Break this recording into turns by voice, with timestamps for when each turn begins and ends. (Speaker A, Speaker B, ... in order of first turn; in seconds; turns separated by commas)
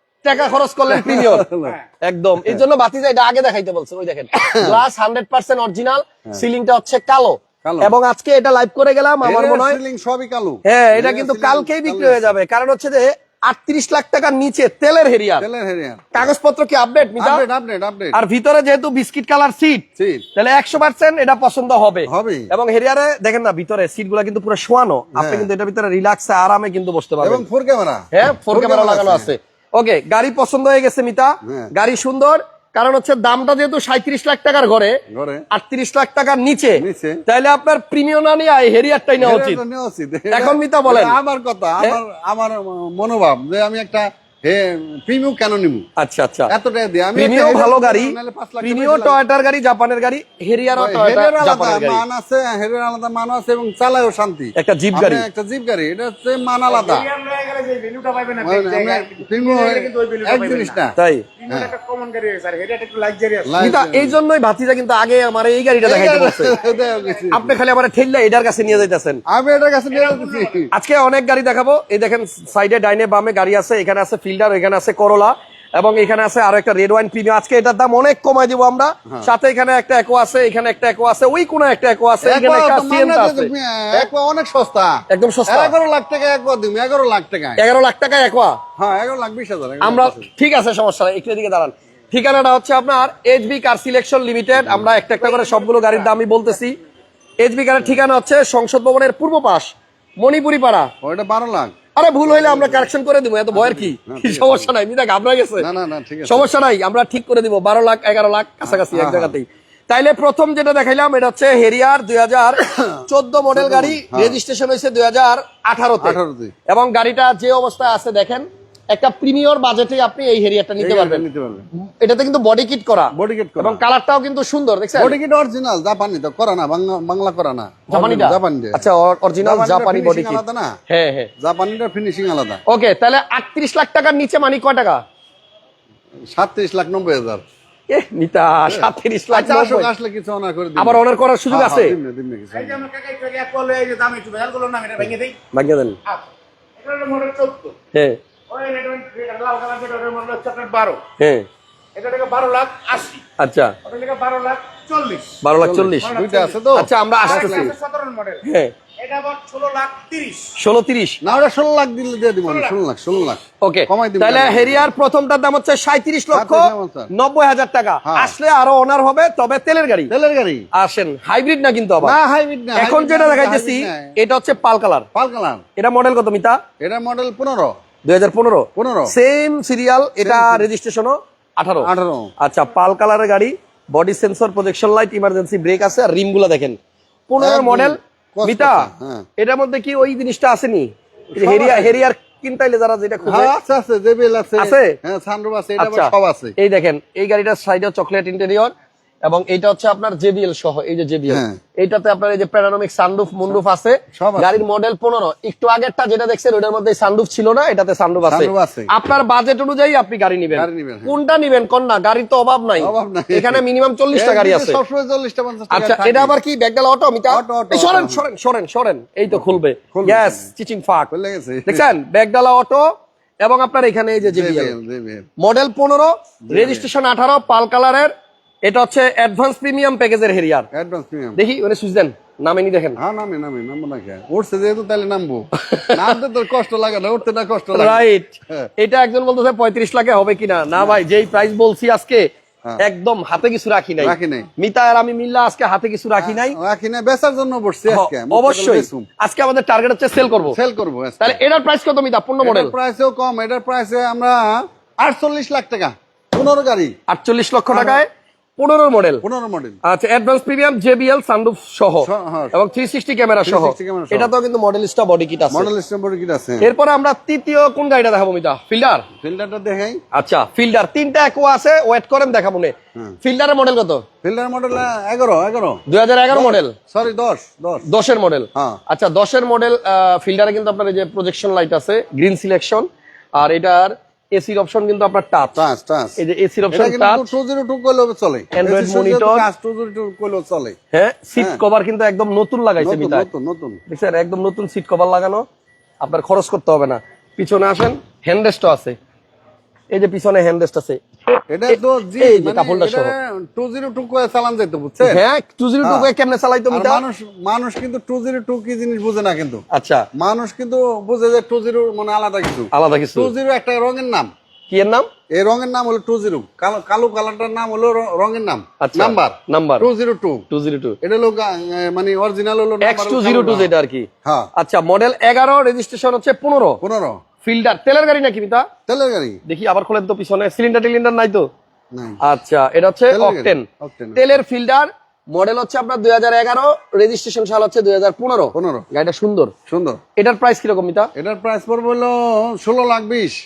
Speaker A: 0.2-1.5, Speaker B: 0.9-1.8, Speaker A: 2.0-9.8, Speaker B: 7.6-7.9, Speaker B: 9.2-12.3, Speaker A: 10.7-15.5, Speaker B: 15.4-16.3, Speaker A: 16.1-17.4, Speaker B: 17.2-18.2, Speaker A: 18.1-27.4, Speaker B: 20.0-20.2, Speaker B: 22.1-22.5, Speaker B: 25.1-25.5, Speaker B: 27.2-29.3, Speaker A: 28.1-35.0, Speaker B: 31.4-31.7, Speaker B: 35.1-35.4, Speaker A: 35.5-39.6, Speaker B: 36.8-37.2, Speaker B: 39.2-45.9, Speaker A: 40.3-41.2, Speaker A: 46.0-46.5, Speaker B: 46.5-49.2, Speaker A: 47.1-52.0, Speaker B: 50.8-57.1, Speaker A: 54.6-55.3, Speaker C: 56.7-60.8, Speaker B: 58.4-61.0, Speaker A: 61.0-61.3, Speaker C: 61.4-63.7, Speaker B: 61.5-61.7, Speaker B: 63.4-64.2, Speaker A: 63.6-66.6, Speaker B: 65.8-67.5, Speaker C: 66.6-67.2, Speaker A: 67.3-69.2, Speaker B: 69.3-70.7, Speaker C: 69.9-70.6, Speaker A: 70.7-84.1, Speaker B: 82.2-85.0, Speaker A: 85.1-85.8, Speaker B: 85.5-87.6, Speaker A: 87.6-88.6, Speaker B: 88.8-90.3, Speaker A: 89.8-96.8, Speaker B: 94.5-96.1, Speaker A: 97.4-100.9, Speaker B: 101.0-101.8, Speaker A: 102.0-105.7, Speaker B: 102.3-102.9, Speaker B: 103.5-104.7, Speaker B: 105.6-106.5, Speaker A: 106.2-121.2, Speaker B: 108.6-109.4, Speaker B: 113.5-114.4, Speaker B: 116.0-116.5, Speaker B: 120.8-121.7, Speaker A: 121.8-125.2, Speaker B: 123.1-123.8, Speaker B: 125.0-128.8, Speaker A: 127.9-131.3, Speaker B: 129.4-130.7, Speaker B: 131.4-132.6, Speaker A: 132.7-135.0, Speaker B: 136.3-137.4, Speaker A: 137.9-139.9, Speaker B: 138.7-142.8, Speaker A: 140.8-142.0, Speaker C: 142.5-145.4, Speaker A: 145.5-146.0, Speaker C: 146.8-147.7, Speaker C: 148.5-151.0, Speaker A: 151.2-151.5, Speaker C: 151.9-153.2, Speaker A: 153.4-153.8, Speaker C: 153.8-155.4, Speaker A: 155.4-156.1, Speaker B: 155.6-157.8, Speaker C: 156.0-156.6, Speaker A: 156.8-157.7, Speaker C: 157.2-158.4, Speaker A: 158.4-158.7, Speaker C: 159.0-160.5, Speaker A: 160.6-161.2, Speaker B: 161.2-164.9, Speaker C: 162.4-162.8, Speaker A: 163.6-170.1, Speaker B: 166.3-167.1, Speaker B: 168.1-168.3, Speaker B: 170.1-170.7, Speaker A: 170.7-172.2, Speaker B: 172.0-174.1, Speaker A: 172.8-175.1, Speaker B: 175.1-175.6, Speaker A: 175.8-176.6, Speaker B: 176.8-177.7, Speaker A: 178.0-181.9, Speaker B: 178.8-179.1, Speaker B: 180.2-180.7, Speaker B: 181.8-182.3, Speaker A: 182.4-193.6, Speaker B: 187.4-189.2, Speaker B: 191.3-192.0, Speaker B: 193.2-196.6, Speaker A: 194.6-194.9, Speaker A: 195.8-198.7, Speaker A: 199.2-214.8, Speaker B: 201.3-201.6, Speaker B: 204.1-204.6, Speaker B: 208.2-208.9, Speaker B: 210.5-211.2, Speaker B: 212.8-216.4, Speaker A: 215.7-221.1, Speaker B: 217.3-218.3, Speaker B: 219.3-220.5, Speaker B: 221.1-221.9, Speaker A: 221.7-222.9, Speaker A: 223.4-224.8, Speaker B: 224.2-225.3, Speaker A: 225.4-228.1, Speaker B: 226.5-226.9, Speaker A: 228.6-230.7, Speaker B: 230.7-231.4, Speaker A: 231.4-233.0, Speaker B: 233.0-238.7, Speaker A: 235.6-236.2, Speaker A: 237.7-242.3, Speaker B: 240.8-241.0, Speaker A: 242.8-246.6, Speaker B: 244.0-244.5, Speaker B: 246.2-249.1, Speaker A: 247.9-250.6, Speaker B: 250.5-251.4, Speaker A: 251.2-252.7, Speaker B: 252.4-256.9, Speaker A: 257.1-259.2, Speaker B: 257.7-258.0, Speaker B: 259.2-259.8, Speaker A: 259.8-265.7, Speaker B: 262.0-262.5, Speaker B: 263.4-264.3, Speaker B: 265.5-266.7, Speaker A: 266.6-269.1, Speaker B: 269.2-270.0, Speaker A: 270.1-274.0, Speaker B: 274.2-277.9, Speaker A: 275.9-276.8, Speaker A: 277.9-285.6, Speaker B: 285.6-286.2, Speaker A: 286.2-287.3, Speaker B: 286.7-290.8, Speaker A: 288.5-289.5, Speaker A: 290.9-293.3, Speaker B: 292.8-293.8, Speaker A: 293.9-295.4, Speaker A: 296.0-299.0, Speaker A: 299.9-303.1, Speaker B: 301.5-305.2, Speaker A: 305.0-307.0, Speaker B: 305.8-306.1, Speaker B: 306.7-309.6, Speaker A: 309.7-310.0, Speaker B: 310.2-314.3, Speaker A: 312.7-313.3, Speaker A: 314.7-315.1, Speaker B: 315.3-320.4, Speaker A: 318.8-319.9, Speaker A: 320.5-321.0, Speaker B: 321.0-323.7, Speaker A: 322.8-326.8, Speaker B: 324.2-324.5, Speaker B: 326.8-327.2, Speaker A: 327.4-328.7, Speaker B: 328.9-329.4, Speaker A: 329.5-331.5, Speaker B: 331.9-332.2, Speaker A: 332.2-339.5, Speaker B: 333.1-334.2, Speaker B: 338.6-338.9, Speaker B: 339.7-340.0, Speaker A: 340.2-341.1, Speaker B: 341.1-343.4